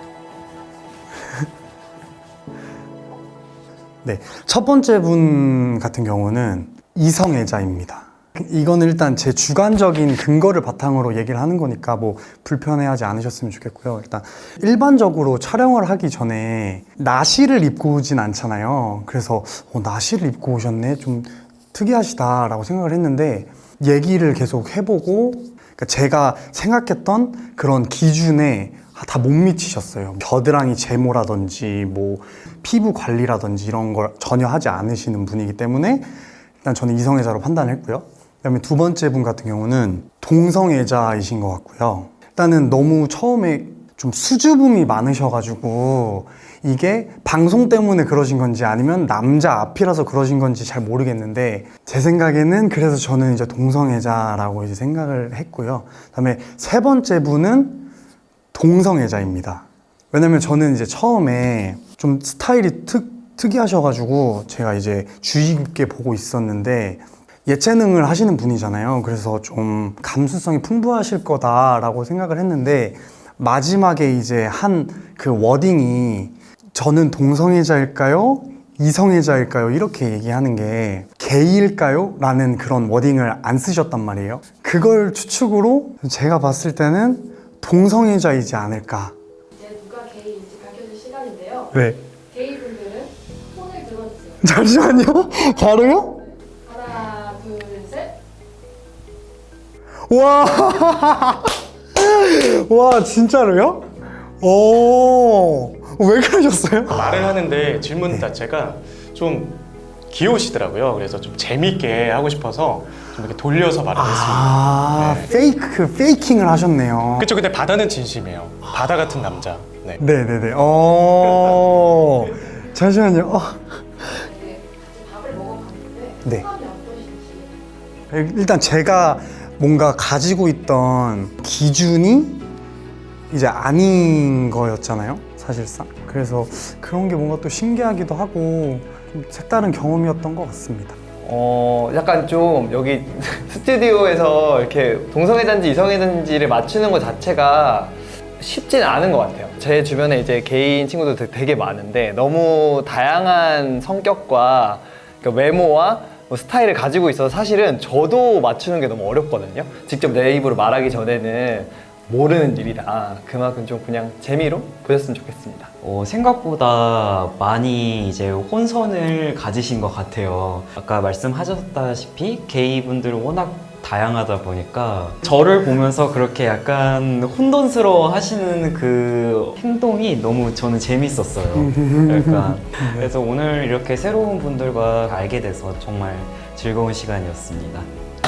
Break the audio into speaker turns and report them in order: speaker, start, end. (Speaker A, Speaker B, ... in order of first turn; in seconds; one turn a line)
Speaker A: 4.0-57.9
Speaker A: 58.5-89.2
Speaker B: 89.5-94.5
Speaker A: 91.7-92.0
Speaker A: 94.4-96.2
Speaker B: 96.5-98.2
Speaker A: 100.1-107.4
Speaker C: 106.9-115.3
Speaker A: 113.9-117.3
Speaker C: 117.2-120.0
Speaker A: 120.0-124.3
Speaker B: 124.2-127.8
Speaker A: 128.1-132.4
Speaker A: 133.3-141.0
Speaker D: 141.2-165.7
Speaker E: 165.8-187.9
Speaker A: 181.5-183.1